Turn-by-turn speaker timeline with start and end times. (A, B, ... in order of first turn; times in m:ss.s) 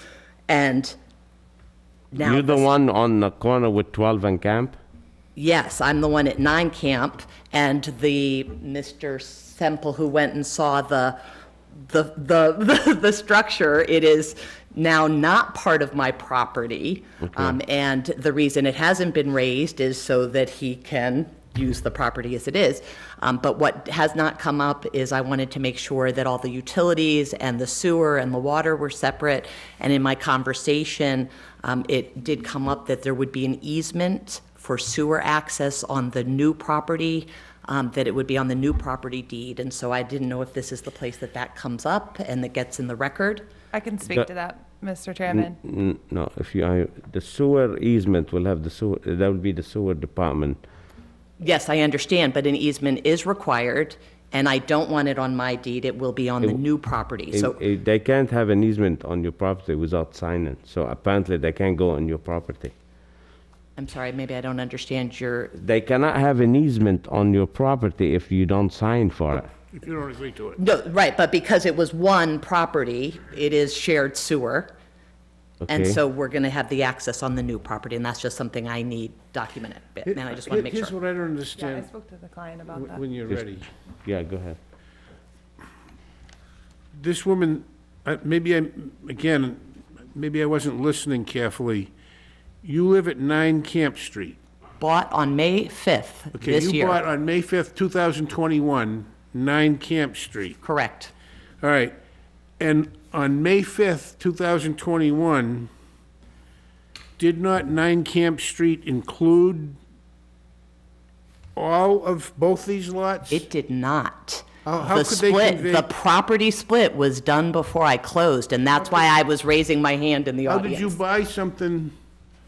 0:00.5-0:01.0 A
0:02.1-0:02.7 A
0:02.2-0:04.8 B
0:05.4-0:11.2 A
0:11.9-0:43.5 A
0:43.7-0:45.6 C
0:45.3-0:50.6 B
0:51.4-0:57.6 A
0:57.3-1:02.7 B
1:03.8-1:05.5 A
1:05.6-1:09.5 B
1:09.7-1:10.6 D
1:10.6-1:14.7 A
1:15.6-1:16.0 B
1:15.7-1:20.9 A
1:20.1-1:21.9 D
1:21.6-1:23.0 C
1:22.7-1:23.7 D
1:24.0-1:24.6 B
1:27.0-1:31.9 D
1:32.6-1:34.4 D
1:34.8-1:37.0 A
1:36.4-1:40.6 D
1:40.6-1:41.1 A
1:41.6-1:41.9 D
1:42.6-1:45.7 D
1:47.2-1:49.8 D
1:51.6-1:53.4 D
1:53.3-2:01.0 A
1:54.6-1:55.9 D
2:00.5-2:01.9 D